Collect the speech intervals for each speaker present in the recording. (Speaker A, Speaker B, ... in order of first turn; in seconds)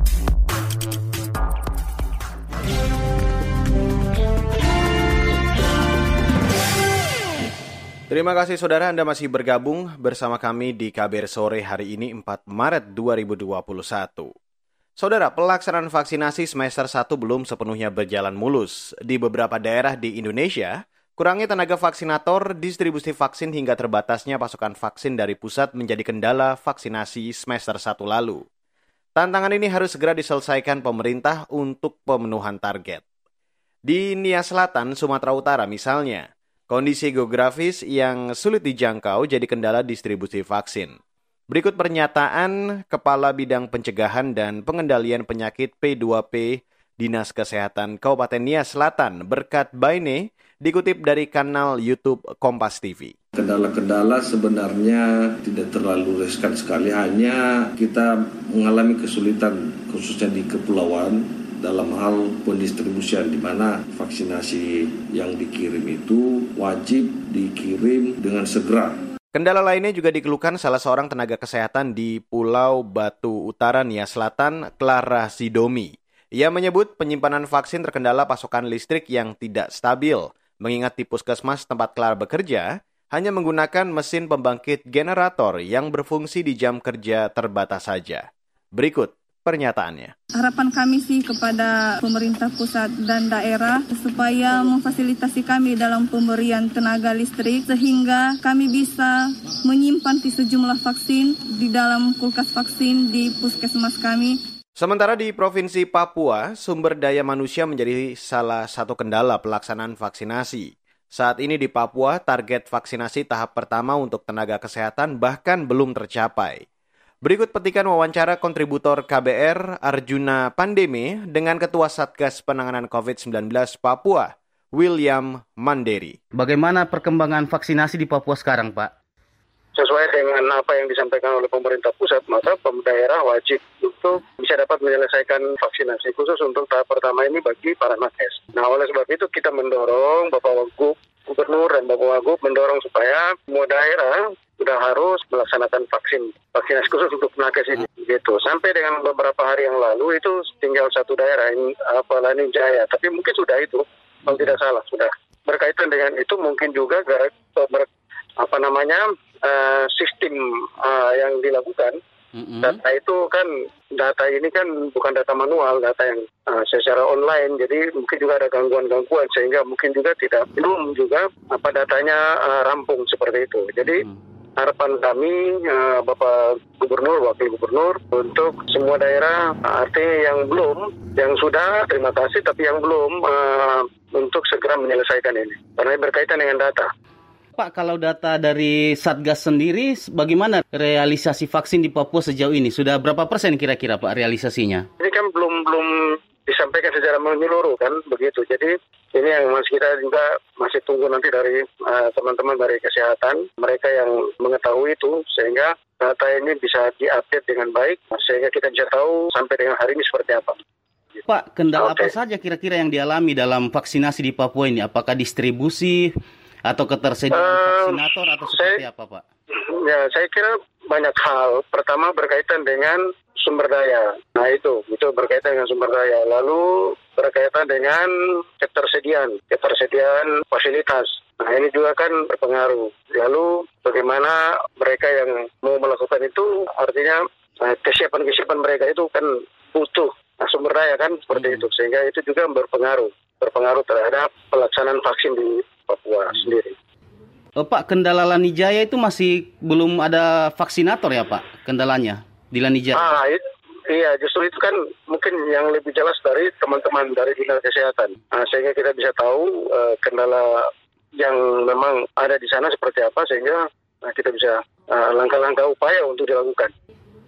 Speaker A: 8.1-14.3, 15.0-28.4, 29.1-33.0, 33.9-41.0, 41.5-53.1, 69.3-90.1, 104.8-116.6, 117.2-126.2
Speaker B: 53.3-69.0
Speaker C: 90.4-104.4
Speaker D: 126.3-128.9, 162.3-162.7, 187.6-194.8, 211.3-219.2, 247.6-253.1
Speaker E: 129.8-157.9, 158.4-162.0, 162.6-174.0, 174.6-186.9, 195.0-210.6, 211.8-212.1, 217.3-218.8, 219.6-246.7, 252.9-266.7